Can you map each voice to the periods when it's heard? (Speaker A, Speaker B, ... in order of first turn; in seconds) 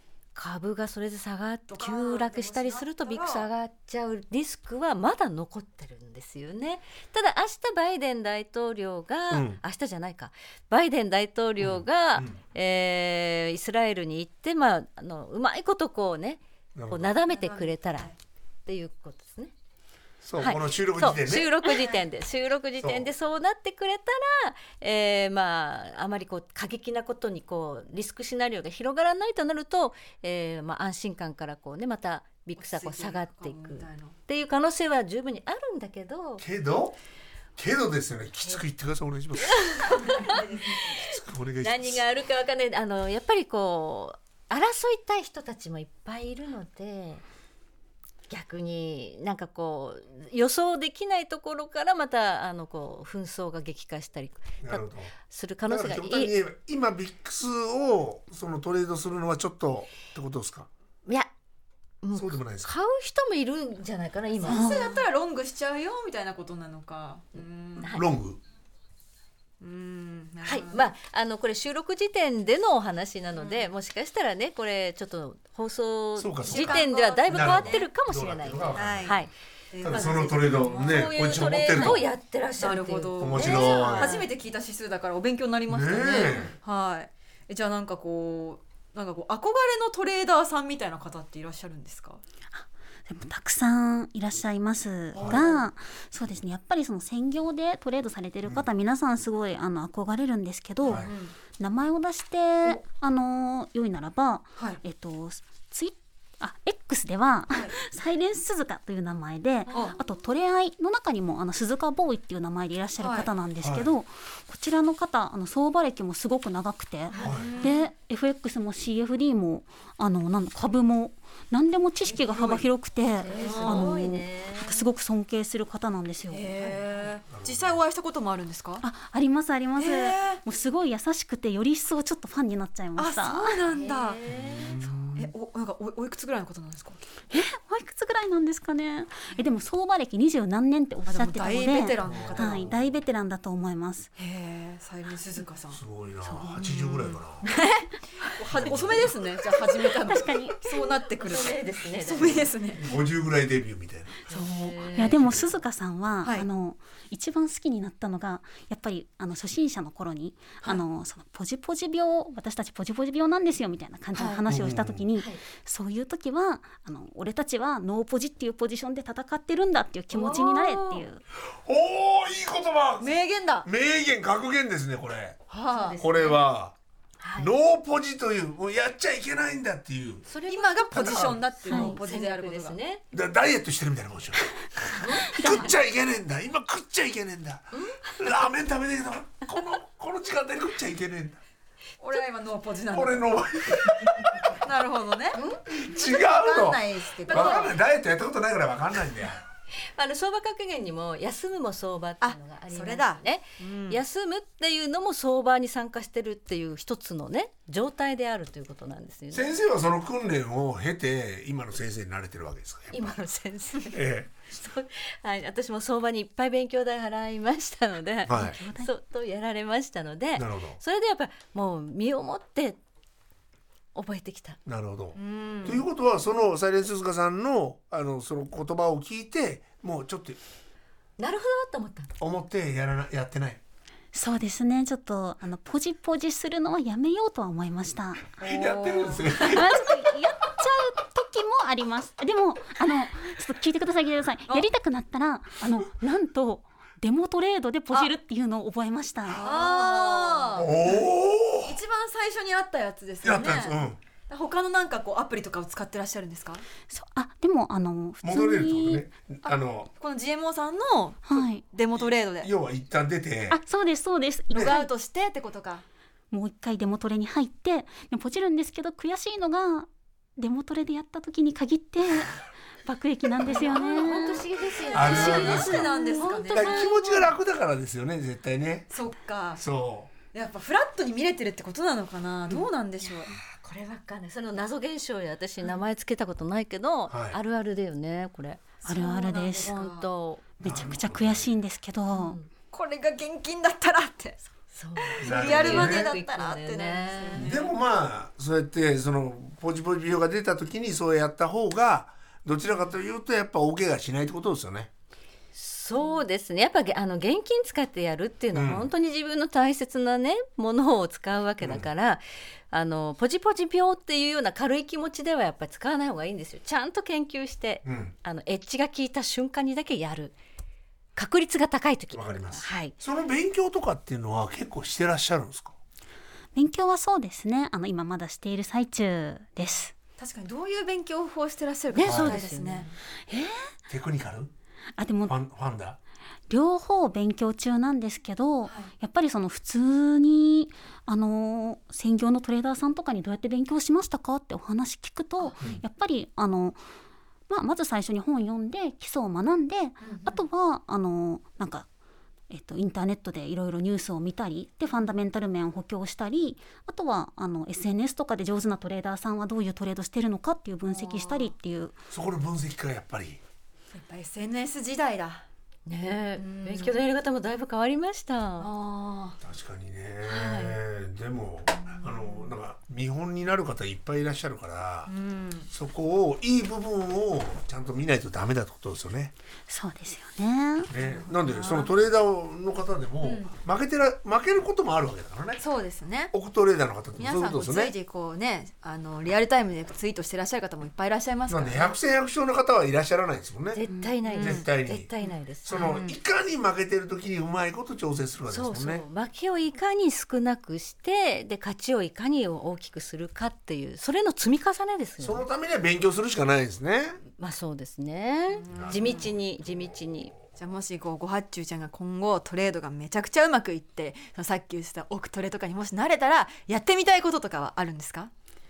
Speaker A: 0.3-18.1, 18.7-19.5, 20.4-36.4, 39.5-41.1, 41.6-47.2, 48.3-56.3, 62.0-64.9, 67.8-68.0, 70.4-79.3, 79.8-84.3, 109.7-110.0, 117.1-117.7, 123.2-124.8, 126.5-127.1, 133.7-134.8, 151.2-152.5, 154.3-155.5, 170.1-171.0, 175.7-176.5, 177.2-177.5, 180.3-183.0, 185.0-185.7, 187.7-188.1, 195.3-195.7, 197.3-197.7, 199.8-209.6, 212.9-214.0, 214.5-222.8, 223.9-224.6, 231.2-232.1, 249.4-250.6, 273.5-276.9, 283.2-288.7, 289.6-290.5, 292.1-292.5, 294.7-297.5, 305.5-320.4, 321.2-322.9, 331.9-332.9, 365.9-369.3, 370.3-370.8, 393.7-396.0, 398.5-405.4, 407.4-410.3
Speaker B: 1.7-3.5, 17.3-18.1, 21.7-22.0, 32.6-34.2, 40.0-40.8, 64.4-68.0, 69.6-70.9, 73.3-73.7, 76.5-77.9, 78.8-79.2, 79.7-82.0, 82.6-92.2, 95.1-95.7, 100.9-101.3, 109.7-110.0, 113.0-113.3, 117.2-117.8, 123.3-124.0, 126.3-128.8, 129.8-130.4, 133.0-134.2, 134.8-137.0, 141.1-142.7, 144.2-145.8, 146.6-152.8, 173.0-173.7, 175.5-176.0, 180.5-182.8, 192.0-193.3, 194.6-197.8, 202.2-204.0, 225.2-225.8, 238.4-239.7, 249.4-251.1, 251.6-256.6, 259.4-262.5, 264.5-265.8, 274.1-277.0, 278.9-279.6, 280.3-283.3, 288.8-290.1, 292.7-294.4, 295.0-297.7, 330.2-332.9, 338.7-338.9, 350.0-350.4, 360.9-361.5, 363.9-365.4, 366.4-367.0, 368.6-369.4, 375.1-375.7, 380.9-381.9, 383.2-383.5, 385.6-386.3, 387.2-392.0, 394.2-394.7, 395.2-396.2, 408.6-409.3, 410.6-418.3
Speaker C: 9.3-9.6, 11.6-12.4, 16.8-17.1, 20.2-21.6, 22.8-23.1, 36.4-37.0, 37.6-39.9, 40.8-42.0, 54.6-55.1, 55.7-60.7, 62.1-62.7, 67.9-68.4, 76.2-79.1, 79.8-82.0, 83.2-84.3, 85.7-86.5, 95.2-95.5, 100.9-101.1, 113.6-113.9, 117.2-117.6, 127.3-127.8, 134.3-135.3, 142.0-142.9, 145.7-147.5, 148.5-149.4, 152.2-154.2, 164.5-165.0, 171.5-173.1, 173.6-176.8, 177.4-180.3, 180.9-181.4, 183.1-191.4, 192.9-194.6, 195.7-199.4, 209.3-213.2, 213.9-214.4, 218.3-218.6, 220.4-220.8, 224.7-230.4, 232.2-233.6, 238.4-239.9, 250.6-251.8, 253.2-254.0, 258.2-259.9, 262.0-263.6, 274.9-275.9, 276.5-278.9, 279.6-280.1, 287.1-287.4, 290.6-291.5, 295.2-296.1, 297.4-304.9, 308.5-308.9, 311.6-311.9, 317.9-318.1, 322.1-325.8, 332.0-332.4, 333.9-334.5, 335.3-336.0, 362.1-363.4, 369.4-375.1, 375.7-379.3, 380.9-385.6, 386.3-387.9, 391.5-395.1, 395.6-399.1, 405.2-407.2, 408.7-410.1
Speaker D: 64.5-65.0, 92.5-126.5, 128.8-133.6, 137.3-144.1, 146.2-146.8, 149.8-150.7, 154.3-171.2, 181.7-182.0, 185.2-185.7, 218.3-218.9, 234.1-238.4, 239.4-249.5, 256.9-259.1, 261.3-261.6, 263.5-264.9, 266.3-274.4, 275.0-276.5, 288.9-289.8, 290.6-292.4, 326.6-329.9, 333.3-333.7, 335.0-335.3, 336.5-346.8, 347.5-351.9, 352.5-362.0, 379.7-380.9, 393.9-394.1